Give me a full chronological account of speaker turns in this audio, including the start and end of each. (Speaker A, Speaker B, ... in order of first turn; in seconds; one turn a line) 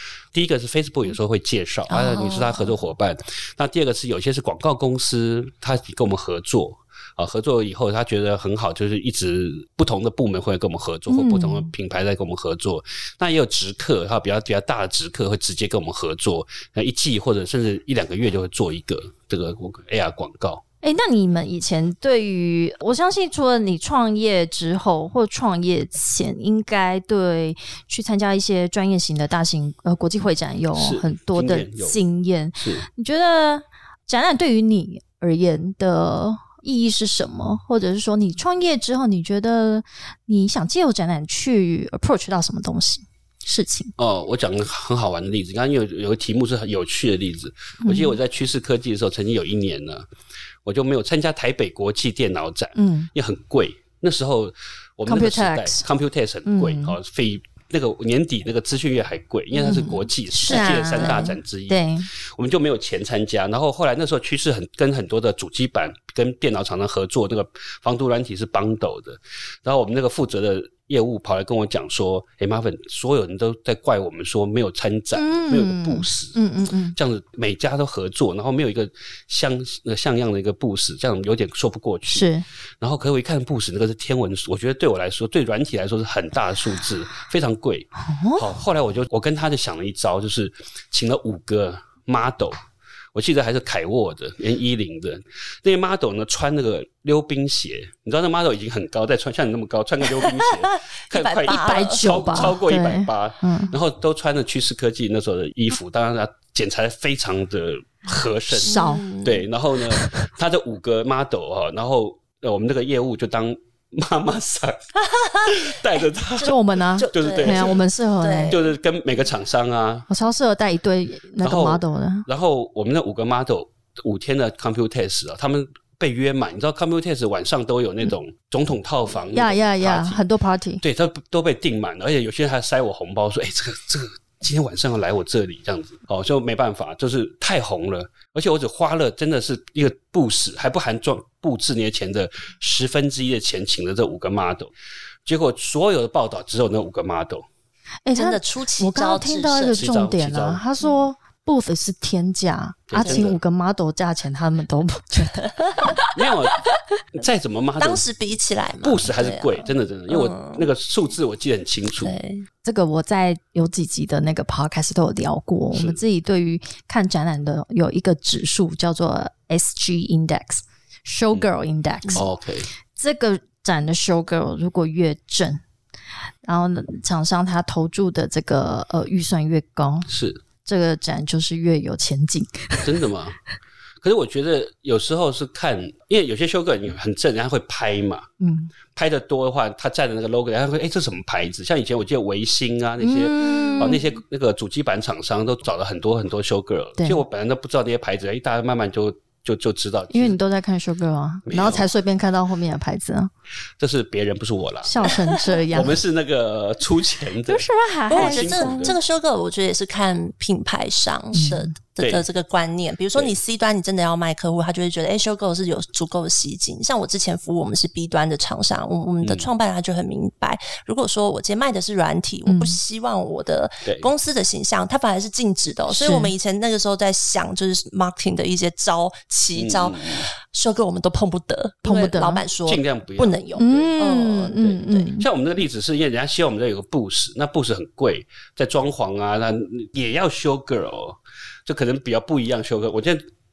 Speaker A: 0.3-20.6
Speaker B: 1.9-2.7
Speaker C: 11.1-11.7
Speaker C: 20.8-43.9
Speaker A: 30.7-32.0
Speaker A: 32.6-32.8
Speaker A: 44.0-50.1
Speaker C: 47.8-48.2
Speaker A: 50.6-76.4
Speaker C: 52.8-53.1
Speaker C: 55.0-55.9
Speaker C: 56.5-57.0
Speaker C: 59.5-62.1
Speaker B: 60.5-61.3
Speaker C: 75.1-77.0
Speaker A: 76.9-82.3
Speaker C: 82.1-82.4
Speaker A: 82.8-92.6
Speaker C: 88.0-88.5
Speaker A: 93.1-114.8
Speaker B: 100.2-102.4
Speaker C: 101.5-103.7
Speaker C: 108.5-109.0
Speaker B: 108.6-109.5
Speaker B: 115.1-115.6
Speaker A: 115.4-116.5
Speaker C: 116.4-118.6
Speaker B: 116.4-118.6
Speaker A: 117.1-117.8
Speaker A: 118.5-120.1
Speaker C: 120.1-122.3
Speaker A: 121.4-130.2
Speaker C: 129.3-130.8
Speaker A: 130.8-144.7
Speaker A: 145.2-147.4
Speaker C: 148.1-156.1
Speaker B: 148.1-149.8
Speaker A: 149.7-150.6
Speaker A: 152.9-153.4
Speaker B: 153.0-153.3
Speaker A: 156.1-156.6
Speaker A: 157.1-158.0
Speaker B: 157.8-160.7
Speaker A: 158.8-162.1
Speaker B: 162.0-162.4
Speaker C: 162.6-172.3
Speaker A: 165.7-166.0
Speaker A: 172.1-172.7
Speaker C: 172.9-175.6
Speaker C: 176.4-180.1
Speaker A: 180.1-180.4
Speaker C: 180.6-182.9
Speaker A: 182.8-183.3
Speaker A: 184.0-188.3
Speaker C: 188.4-188.7
Speaker A: 188.9-200.4
Speaker C: 193.0-194.0
Speaker C: 197.0-197.2
Speaker C: 200.1-203.3
Speaker A: 201.4-201.9
Speaker A: 203.8-205.1
Speaker C: 204.8-206.0
Speaker A: 205.7-209.0
Speaker C: 207.5-208.9
Speaker B: 208.1-235.1
Speaker C: 211.3-211.7
Speaker A: 212.0-212.2
Speaker A: 219.2-219.5
Speaker C: 222.5-222.8
Speaker C: 225.9-226.3
Speaker A: 229.6-230.2
Speaker C: 231.8-232.4
Speaker A: 232.7-233.9
Speaker C: 233.6-235.2
Speaker A: 234.6-243.2